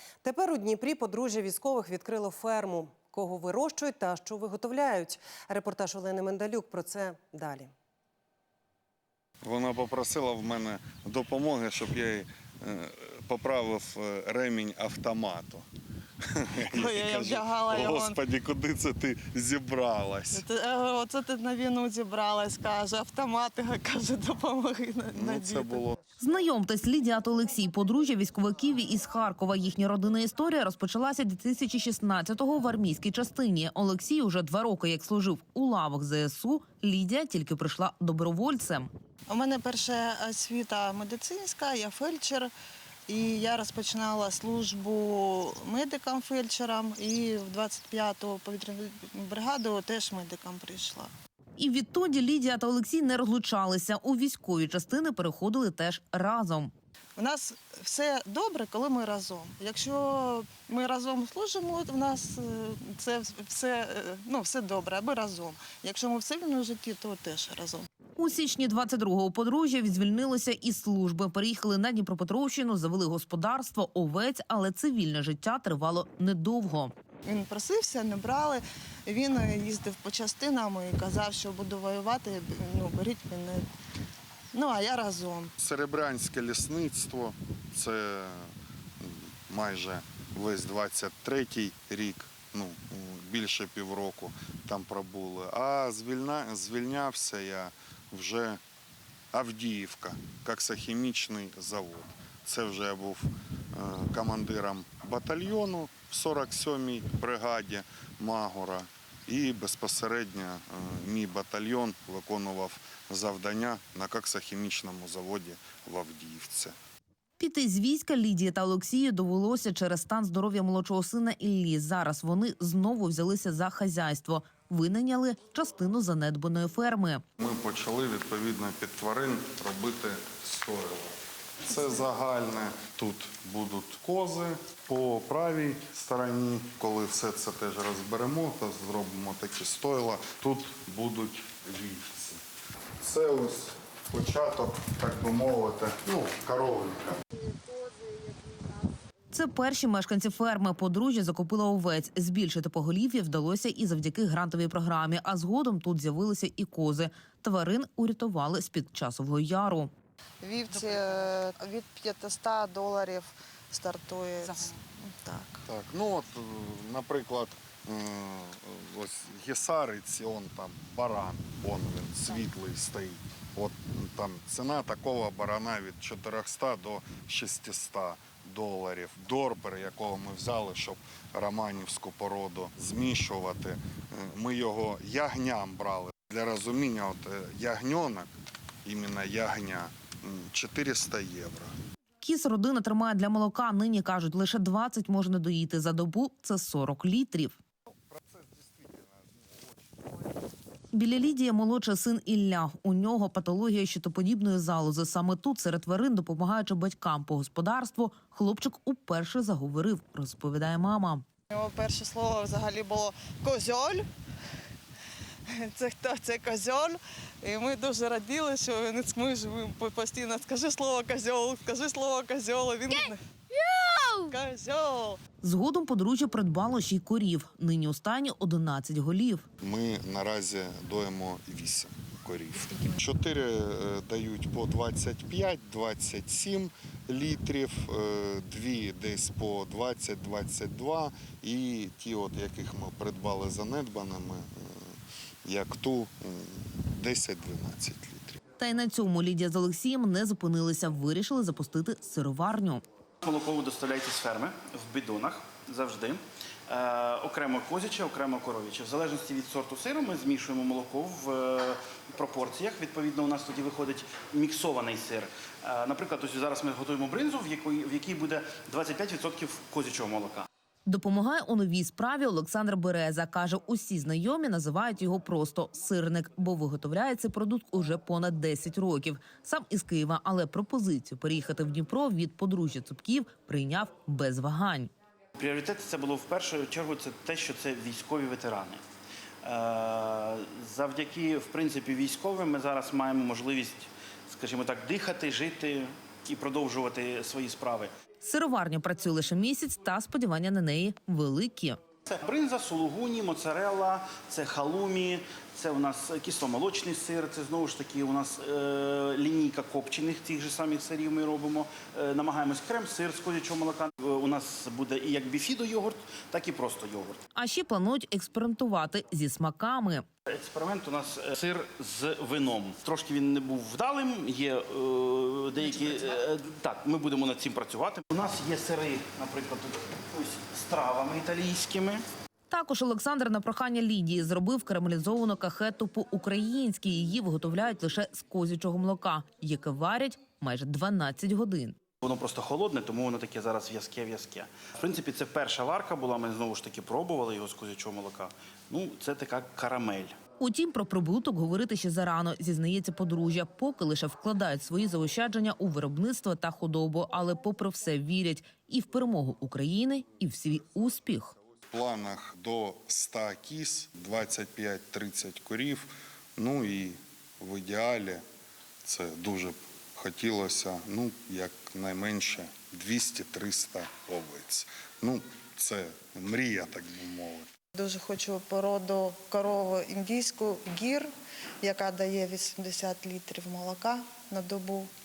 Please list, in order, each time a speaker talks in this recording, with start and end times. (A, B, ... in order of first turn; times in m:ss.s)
0:00.2-0:07.7 A
0:09.4-0:15.7 B
0:16.2-0:20.4 B
0:16.7-0:18.2 C
0:20.3-0:25.8 C
0:25.1-0:26.0 B
0:26.2-0:38.9 D
0:39.3-0:42.5 C
0:43.1-0:51.1 C
0:51.6-0:56.7 D
0:57.2-1:07.9 C
1:08.2-1:16.9 D
1:17.3-1:23.7 C
1:24.5-1:25.5 C
1:25.6-1:38.6 B
1:39.3-1:56.8 B
1:57.4-2:07.2 D
2:07.4-2:22.4 B
2:23.0-2:27.2 B
2:29.3-2:39.9 D
2:40.4-2:45.6 C
2:45.7-3:08.3 B
3:08.8-3:11.7 B
3:12.2-3:17.6 D
3:18.0-3:20.3 B
3:20.9-3:31.2 D
3:31.5-3:34.1 C
3:35.5-3:43.2 C
3:44.2-3:45.2 C
3:45.4-3:49.4 D
3:49.6-4:04.9 B
4:05.4-4:08.4 B
4:08.6-4:12.8 D
4:13.2-4:30.5 E
4:30.9-4:44.9 D
4:45.4-4:48.8 E
4:49.4-4:57.9 E
4:58.2-5:01.8 D
5:02.1-5:17.2 E
5:17.4-5:20.0 D
5:20.3-5:32.0 E
5:32.5-5:41.8 D
5:42.0-5:50.2 E
5:50.4-6:01.4 D
6:01.7-6:08.2 B
6:08.8-6:17.5 B
6:17.8-6:21.1 C
6:21.6-6:24.9 C